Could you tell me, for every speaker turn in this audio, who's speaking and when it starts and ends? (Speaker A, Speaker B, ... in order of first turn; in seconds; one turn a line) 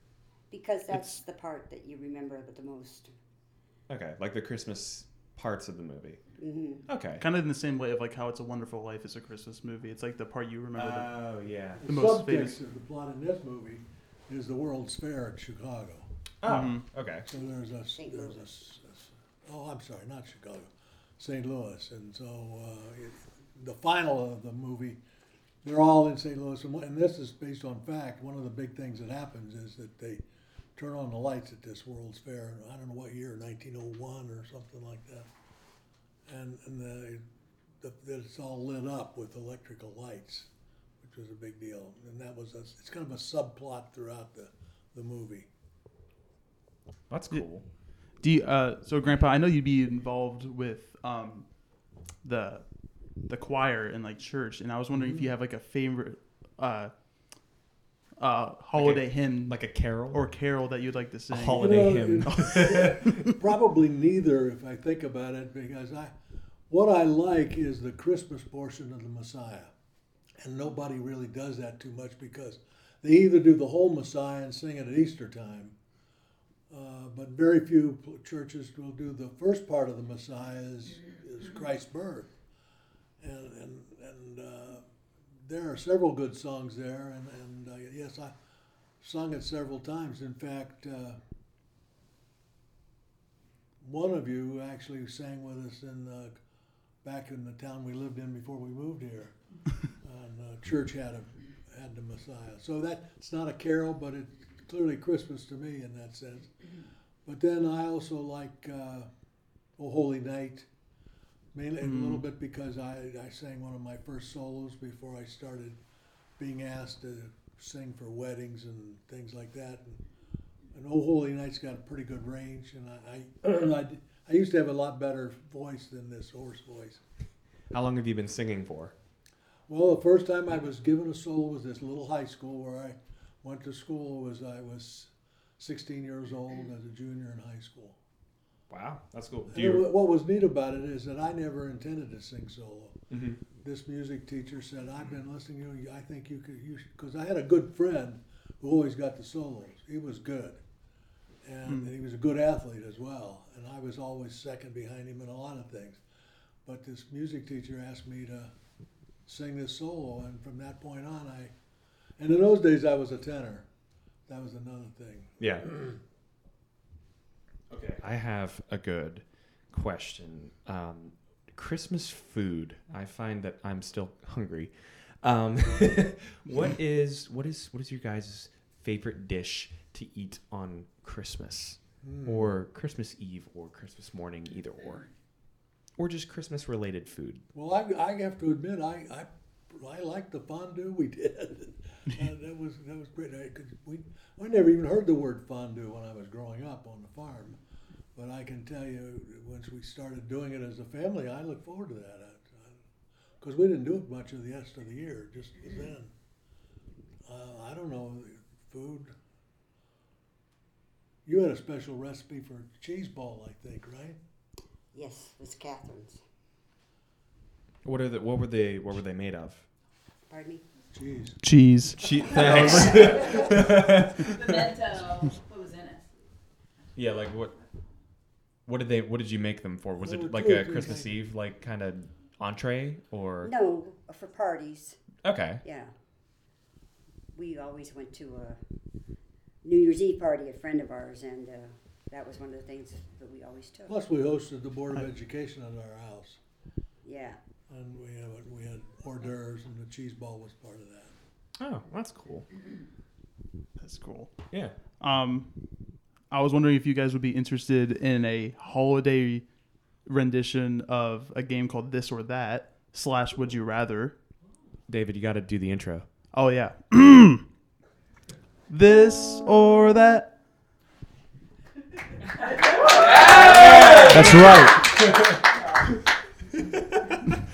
Speaker A: 0.5-3.1
Speaker B: 0.9-1.2
Speaker C: 3.9-6.2
Speaker A: 6.4-6.8
Speaker C: 6.9-7.2
Speaker B: 7.2-11.1
Speaker C: 10.8-11.8
Speaker D: 11.8-16.1
Speaker B: 11.8-12.6
Speaker C: 16.4-17.2
Speaker B: 16.4-16.9
Speaker D: 17.3-25.0
Speaker A: 17.9-18.4
Speaker D: 25.6-30.2
Speaker D: 30.8-35.3
Speaker D: 36.3-37.2
Speaker D: 37.8-40.5
Speaker D: 41.0-45.5
Speaker C: 47.1-47.6
Speaker B: 48.2-51.5
Speaker B: 52.2-52.7
Speaker B: 53.2-56.9
Speaker D: 55.0-55.2
Speaker B: 58.2-63.3
Speaker C: 58.8-60.2
Speaker C: 61.3-63.3
Speaker D: 61.5-66.1
Speaker D: 66.7-69.7
Speaker D: 70.4-75.7
Speaker D: 76.7-82.3
Speaker D: 83.2-84.8
Speaker D: 85.4-88.3
Speaker D: 89.0-91.2
Speaker D: 93.8-96.4
Speaker D: 97.0-99.3
Speaker D: 99.9-106.5
Speaker D: 107.2-109.1
Speaker D: 109.8-110.7
Speaker D: 111.5-115.8
Speaker B: 111.8-112.2
Speaker D: 116.4-120.0
Speaker D: 120.7-127.0
Speaker C: 127.7-128.9
Speaker D: 129.7-138.0
Speaker C: 138.7-139.9
Speaker D: 139.5-143.0
Speaker C: 143.1-143.4
Speaker D: 143.6-150.6
Speaker D: 151.4-156.0
Speaker D: 156.6-158.5
Speaker D: 159.2-161.5
Speaker D: 162.2-163.7
Speaker D: 164.3-165.3
Speaker C: 165.4-165.7
Speaker C: 167.7-185.1
Speaker D: 182.0-182.5
Speaker C: 186.0-187.4
Speaker D: 187.5-197.6
Speaker D: 198.1-202.8
Speaker D: 203.4-206.1
Speaker D: 207.2-209.1
Speaker D: 211.2-214.2
Speaker A: 214.9-216.2
Speaker C: 217.8-219.7
Speaker A: 220.3-220.6
Speaker D: 220.9-221.4
Speaker B: 221.4-223.2
Speaker C: 222.0-224.7
Speaker E: 222.8-226.1
Speaker C: 226.9-227.5
Speaker E: 226.9-227.8
Speaker C: 228.7-233.5
Speaker D: 230.0-231.1
Speaker A: 233.4-235.0
Speaker C: 235.2-235.6
Speaker A: 235.6-235.9
Speaker A: 237.3-238.6
Speaker A: 239.6-243.9
Speaker D: 243.9-246.4
Speaker A: 247.0-247.4
Speaker D: 247.7-251.1
Speaker C: 251.6-252.4
Speaker B: 253.8-254.4
Speaker B: 255.0-255.6
Speaker B: 256.3-259.4
Speaker B: 260.1-264.1
Speaker C: 264.9-266.1
Speaker B: 266.3-267.4
Speaker B: 268.7-270.3
Speaker C: 273.1-275.4
Speaker B: 274.1-274.8
Speaker C: 276.7-277.2